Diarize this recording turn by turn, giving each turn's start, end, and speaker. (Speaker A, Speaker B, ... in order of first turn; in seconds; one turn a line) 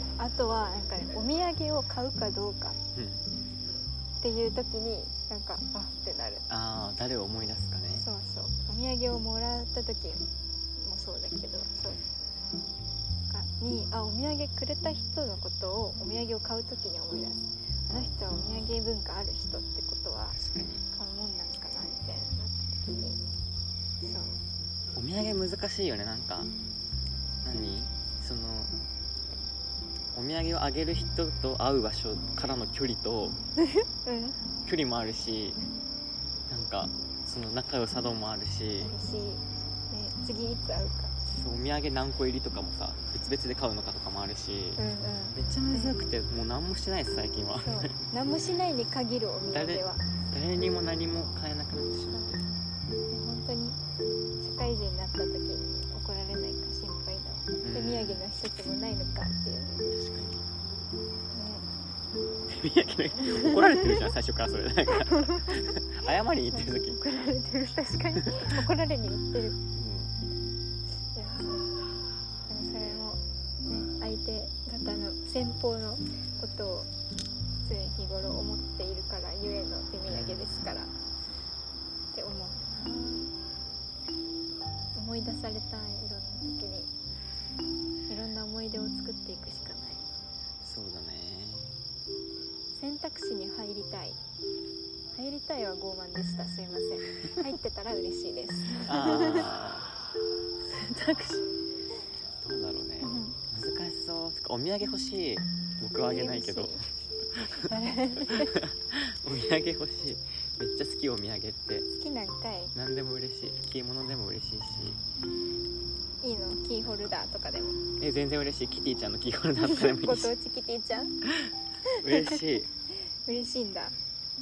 Speaker A: 0.2-2.8
Speaker B: 3.0-3.3
Speaker A: 4.2-6.5
Speaker B: 6.5-8.1
Speaker A: 8.0-10.3
Speaker A: 10.8-12.0
Speaker A: 13.3-20.4
Speaker B: 17.9-18.7
Speaker B: 20.3-20.9
Speaker A: 20.9-23.2
Speaker A: 24.0-24.4
Speaker B: 24.9-26.5
Speaker B: 27.4-28.8
Speaker B: 30.1-33.4
Speaker A: 33.8-34.4
Speaker B: 34.6-35.6
Speaker B: 36.5-38.9
Speaker A: 38.8-41.1
Speaker B: 41.3-44.8
Speaker A: 44.8-46.1
Speaker B: 45.4-48.0
Speaker A: 47.6-50.1
Speaker B: 49.5-52.5
Speaker A: 53.1-53.8
Speaker A: 54.4-59.9
Speaker B: 57.6-58.3
Speaker B: 59.9-60.4
Speaker A: 61.3-61.7
Speaker B: 62.5-67.0
Speaker A: 63.2-64.1
Speaker A: 64.9-65.7
Speaker A: 66.5-69.6
Speaker B: 68.2-68.5
Speaker B: 69.7-70.2
Speaker A: 71.1-71.8
Speaker A: 72.5-76.9
Speaker A: 77.6-80.9
Speaker B: 80.1-80.8
Speaker A: 82.1-83.3
Speaker A: 85.0-86.9
Speaker A: 88.1-90.1
Speaker B: 90.6-91.9
Speaker A: 92.8-94.2
Speaker A: 95.1-99.5
Speaker B: 98.8-99.9
Speaker B: 100.7-101.4
Speaker B: 102.4-106.8
Speaker A: 103.0-103.4
Speaker A: 106.1-106.9
Speaker B: 107.4-107.7
Speaker A: 107.5-108.6
Speaker B: 108.2-111.9
Speaker A: 111.9-112.7
Speaker B: 112.8-115.0
Speaker A: 116.2-117.8
Speaker B: 116.8-117.2
Speaker B: 118.0-120.3
Speaker A: 119.6-121.2
Speaker B: 121.4-122.7
Speaker A: 121.9-122.5
Speaker A: 123.2-124.0